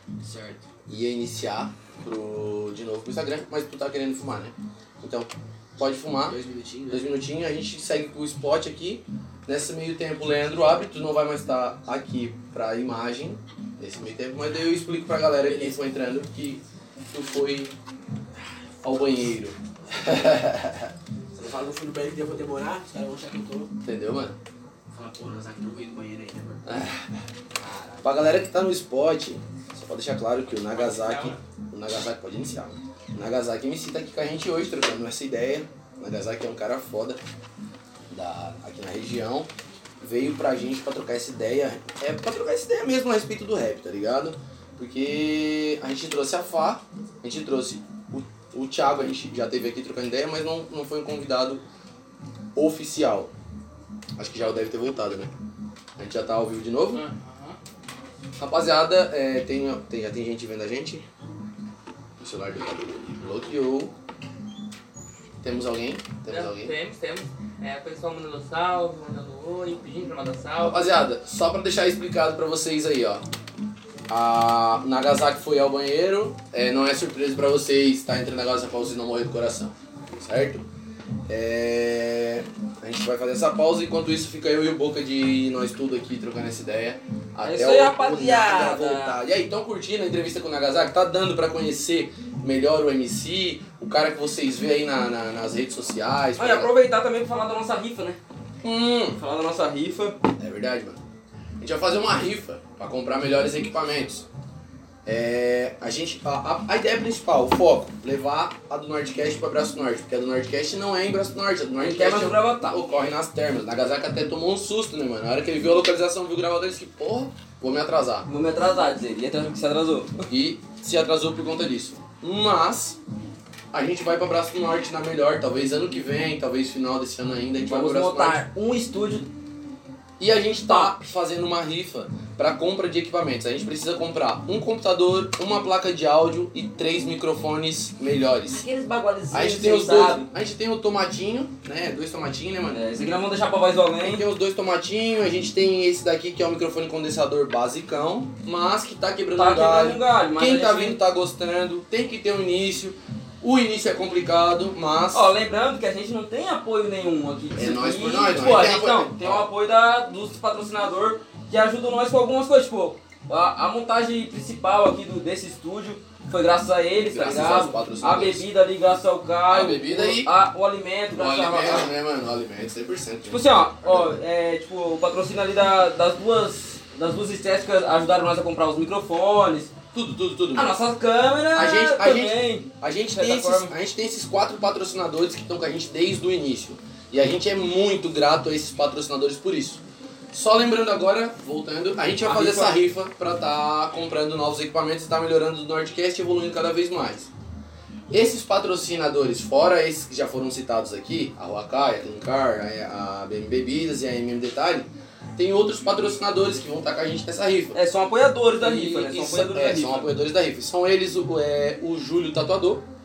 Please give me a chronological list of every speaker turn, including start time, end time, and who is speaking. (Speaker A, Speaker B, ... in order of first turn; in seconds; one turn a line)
Speaker A: 0.2-0.7
Speaker B: 0.9-6.4
Speaker A: 6.2-7.1
Speaker B: 6.9-17.7
Speaker A: 15.4-15.8
Speaker A: 18.4-19.2
Speaker B: 18.8-20.9
Speaker A: 19.9-20.4
Speaker A: 21.4-23.7
Speaker B: 23.9-24.4
Speaker A: 24.9-26.8
Speaker B: 26.7-27.2
Speaker A: 27.5-28.1
Speaker B: 28.0-37.2
Speaker C: 30.6-31.4
Speaker B: 38.1-51.6
Speaker B: 52.5-53.3
Speaker B: 54.2-55.3
Speaker B: 56.0-57.1
Speaker C: 56.9-57.6
Speaker B: 58.4-61.0
Speaker B: 62.2-63.9
Speaker B: 65.4-66.7
Speaker C: 66.3-70.9
Speaker B: 70.6-73.2
Speaker B: 74.1-80.7
Speaker B: 81.3-96.7
Speaker D: 87.4-89.2
Speaker D: 96.4-98.2
Speaker B: 98.6-99.2
Speaker D: 99.2-100.2
Speaker B: 100.4-101.0
Speaker B: 101.6-104.3
Speaker B: 105.1-118.3
Speaker D: 111.8-112.8
Speaker D: 118.3-120.3
Speaker B: 120.3-123.0
Speaker B: 123.7-128.4
Speaker D: 127.6-129.3
Speaker B: 130.2-138.6
Speaker D: 130.7-131.1
Speaker D: 138.5-140.3
Speaker B: 139.3-142.9
Speaker D: 142.7-144.2
Speaker B: 144.0-155.3
Speaker D: 149.4-151.0
Speaker D: 155.1-171.9
Speaker B: 157.6-159.5
Speaker B: 167.1-168.5
Speaker A: 167.2-167.8
Speaker B: 169.5-170.3
Speaker B: 171.1-174.2
Speaker D: 173.3-179.7
Speaker B: 179.9-180.8
Speaker D: 180.6-183.7
Speaker B: 181.5-197.3
Speaker D: 192.2-192.8
Speaker B: 198.1-207.8
Speaker D: 207.7-210.1
Speaker B: 208.5-212.8